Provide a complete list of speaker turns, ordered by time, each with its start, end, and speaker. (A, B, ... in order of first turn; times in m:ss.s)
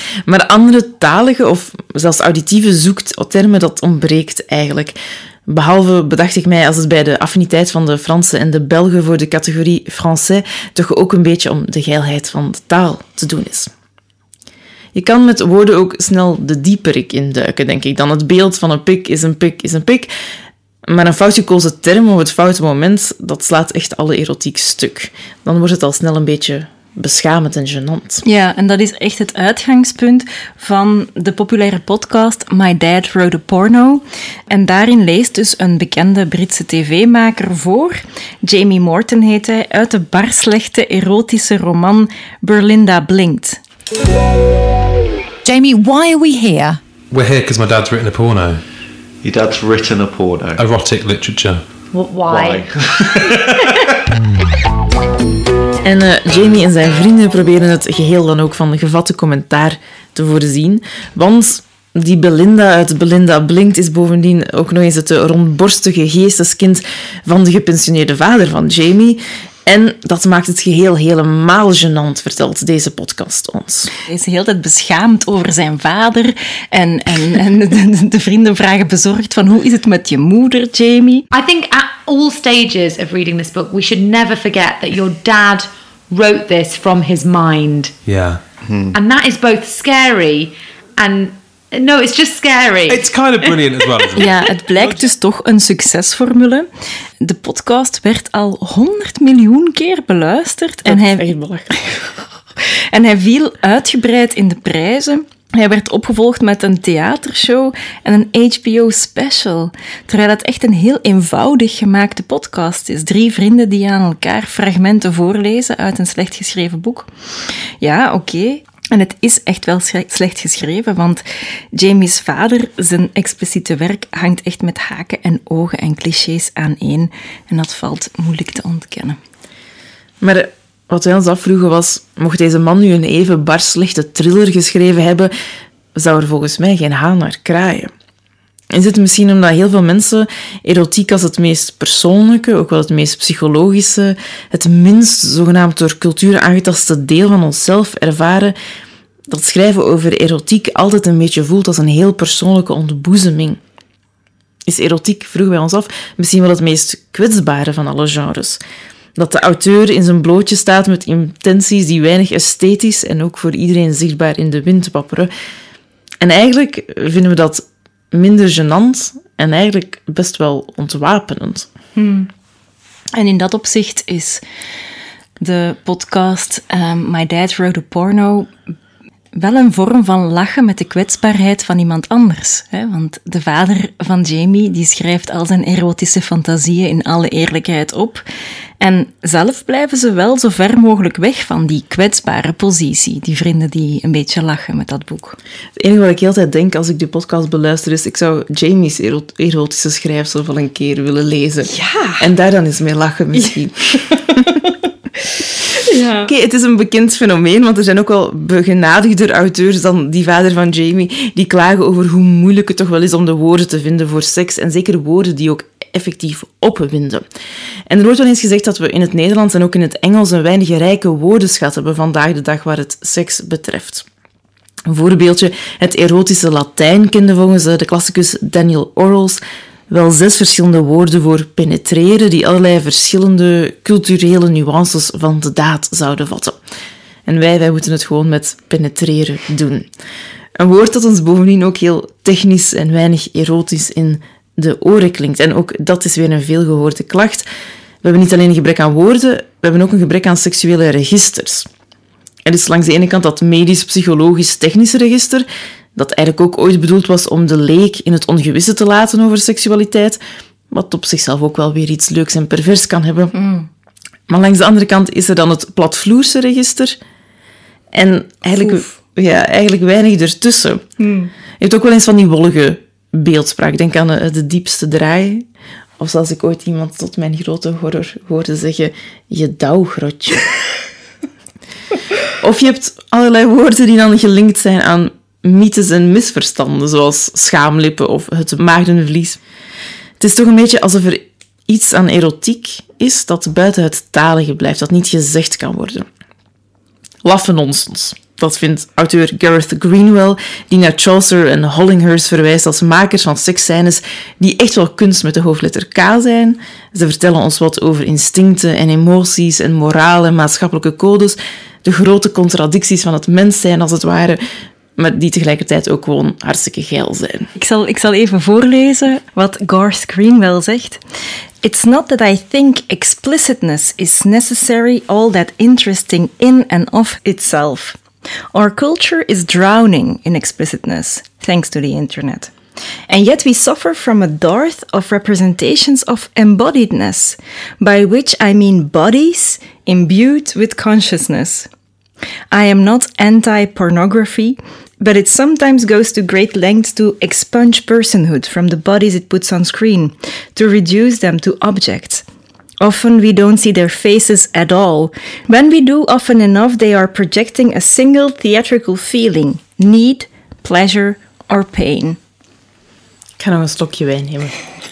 0:00.2-0:13.7 A
0:14.9-0:20.1 A
0:20.8-0:28.2 A
0:28.2-0:43.6 B
0:45.4-0:46.8 C
0:47.1-0:48.6 D
0:49.2-0:50.6 E
0:50.6-0:51.6 D
0:51.9-0:52.6 C
0:52.2-0:53.8 E
0:55.8-1:13.9 A
1:14.1-1:21.3 B
1:21.3-1:27.9 C
1:28.0-1:28.4 D
1:28.6-1:29.0 E
1:28.9-1:33.5 C
1:32.9-1:34.8 D
1:34.2-1:36.7 B
1:37.2-1:41.3 B
1:40.8-1:42.1 A
1:42.9-1:57.1 B
1:57.8-2:09.2 B
2:10.2-2:15.3 A
2:15.9-2:17.9 A
2:18.7-2:28.5 A
2:29.3-2:33.6 A
2:34.6-2:38.6 A
2:39.2-2:45.3 A
2:46.2-2:51.7 A
2:52.0-2:52.3 B
2:53.1-2:54.4 B
2:55.4-2:58.5 B
2:59.3-3:08.2 B
3:08.8-3:15.4 B
3:15.8-3:24.4 A
3:21.7-3:22.2 B
3:25.8-3:26.3 B
3:26.2-3:37.2 A
3:37.9-3:44.0 A
3:44.9-3:56.6 A
3:57.2-3:59.9 A
4:00.6-4:07.4 A
4:08.0-4:11.7 A
4:12.4-4:20.2 A
4:20.7-4:23.3 A
4:23.3-4:23.7 B
4:24.3-4:27.0 A
4:27.9-4:30.8 A
4:28.6-4:28.9 B
4:31.0-4:31.3 B
4:31.6-4:35.4 A
4:36.0-4:40.5 A
4:42.4-4:49.4 A
4:50.2-4:56.1 A
4:57.2-5:14.4 A
5:15.0-5:17.5 A
5:17.6-5:21.0 B
5:21.6-5:28.0 B
5:28.5-5:32.5 B
5:33.1-5:41.7 B
5:42.5-5:52.2 B
5:52.8-6:02.2 B
6:03.4-6:04.6 A